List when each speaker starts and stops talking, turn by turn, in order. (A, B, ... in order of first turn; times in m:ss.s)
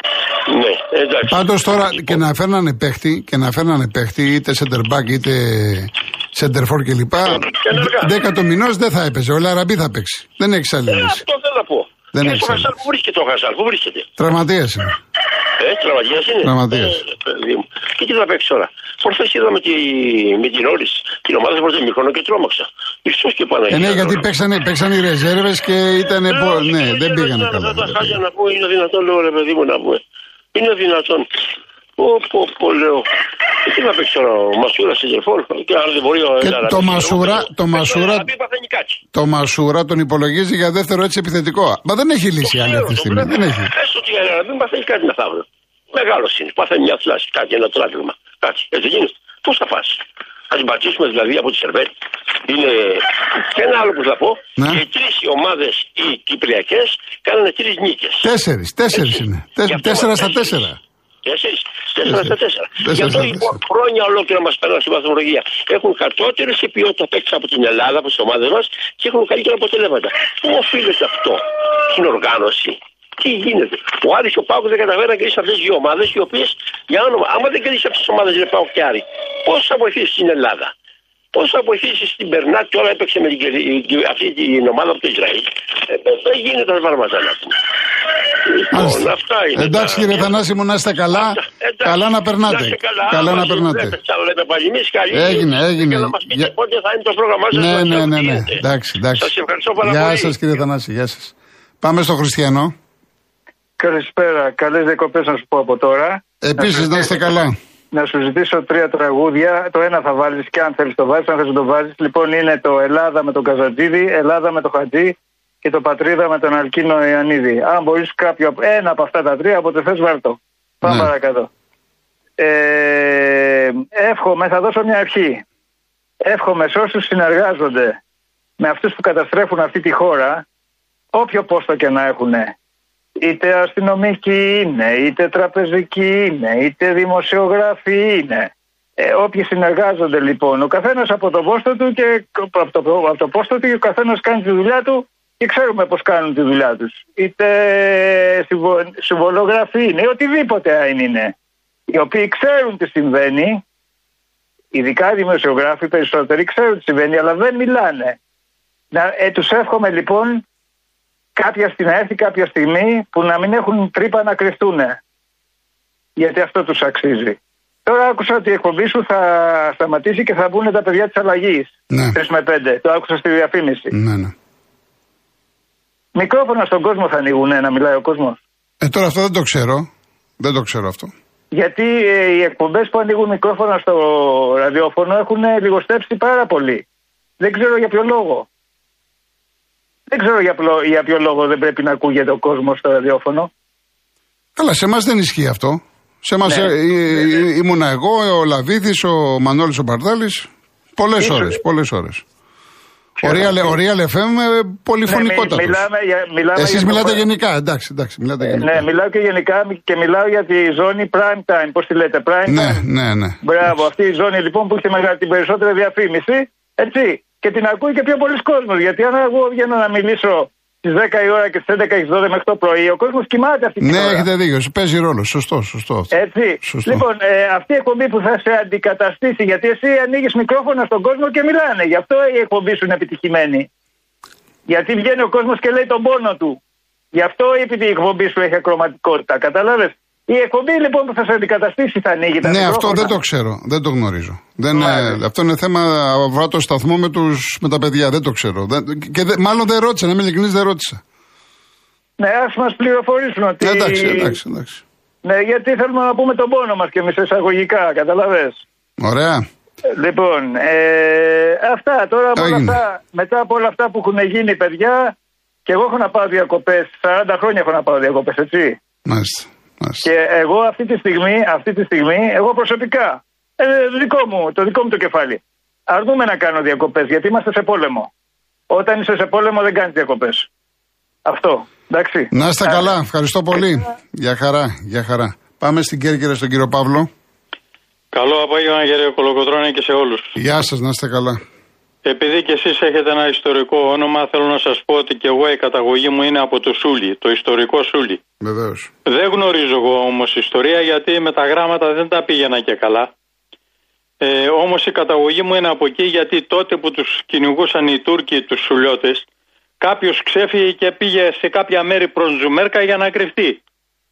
0:00.4-0:02.2 A
0:01.3-0:11.2 B
0:07.3-0:08.1 A
0:10.9-0:14.1 A
0:12.1-0:12.7 B
0:14.2-0:15.0 B
0:15.6-0:24.2 A
0:16.4-0:17.0 B
0:23.7-0:28.2 B
0:26.3-0:30.0 A
0:30.5-0:31.3 A
0:32.0-0:33.1 A
0:33.6-0:39.0 A
0:36.4-0:38.3 B
0:39.1-0:43.7 B
0:42.4-0:51.9 A
0:52.4-0:58.3 A
0:54.6-0:54.8 B
0:58.2-1:00.8 B
0:58.9-1:00.6 A
1:01.2-1:20.7 A
1:02.0-1:03.6 B
1:21.3-1:27.6 A
1:28.4-1:30.4 A
1:28.7-1:34.0 B
1:31.1-1:38.6 A
1:35.1-1:36.5 B
1:37.5-1:42.7 B
1:39.2-1:40.4 A
1:43.8-1:47.1 C
1:46.4-1:47.5 B
1:47.9-2:01.5 C
2:00.8-2:01.1 B
2:02.4-2:05.4 C
2:06.2-2:08.0 C
2:08.6-2:10.4 C
2:11.1-2:12.5 C
2:13.2-2:31.3 C
2:31.9-2:33.6 C
2:34.7-2:38.2 C
2:38.9-2:40.4 C
2:41.4-2:45.0 C
2:46.2-2:53.9 C
2:51.9-2:52.2 B
2:53.9-2:54.3 B
2:56.1-2:58.4 C
2:58.8-2:59.9 B
3:00.4-3:01.1 B
3:01.5-3:06.8 C
3:07.4-3:08.5 C
3:10.1-3:13.5 C
3:14.6-3:22.2 B
3:16.4-3:16.7 C
3:21.2-3:21.5 C
3:23.2-3:23.8 C
3:23.2-3:25.8 B
3:25.1-3:27.2 C
3:26.5-3:28.8 B
3:28.4-3:32.8 C
3:32.5-3:33.8 B
3:33.4-3:44.2 C
3:43.8-3:47.0 B
3:46.1-3:53.7 C
3:54.7-3:56.6 C
3:57.1-4:03.2 C
4:02.4-4:11.0 B
4:04.7-4:05.2 C
4:12.2-4:14.3 C
4:13.6-4:14.8 B
4:15.2-4:18.6 C
4:19.0-4:19.4 B
4:19.9-4:25.1 C
4:22.4-4:22.8 B
4:25.6-4:28.8 C
4:29.0-4:30.1 B
4:30.0-4:38.1 C
4:38.7-4:40.5 C
4:41.2-4:42.9 C
4:42.3-4:47.1 B
4:48.1-4:50.3 D
4:50.4-4:51.4 B
4:52.0-4:58.2 D
4:58.4-4:58.9 B
4:59.0-5:03.1 D
5:04.2-5:09.3 D
5:09.8-5:13.6 D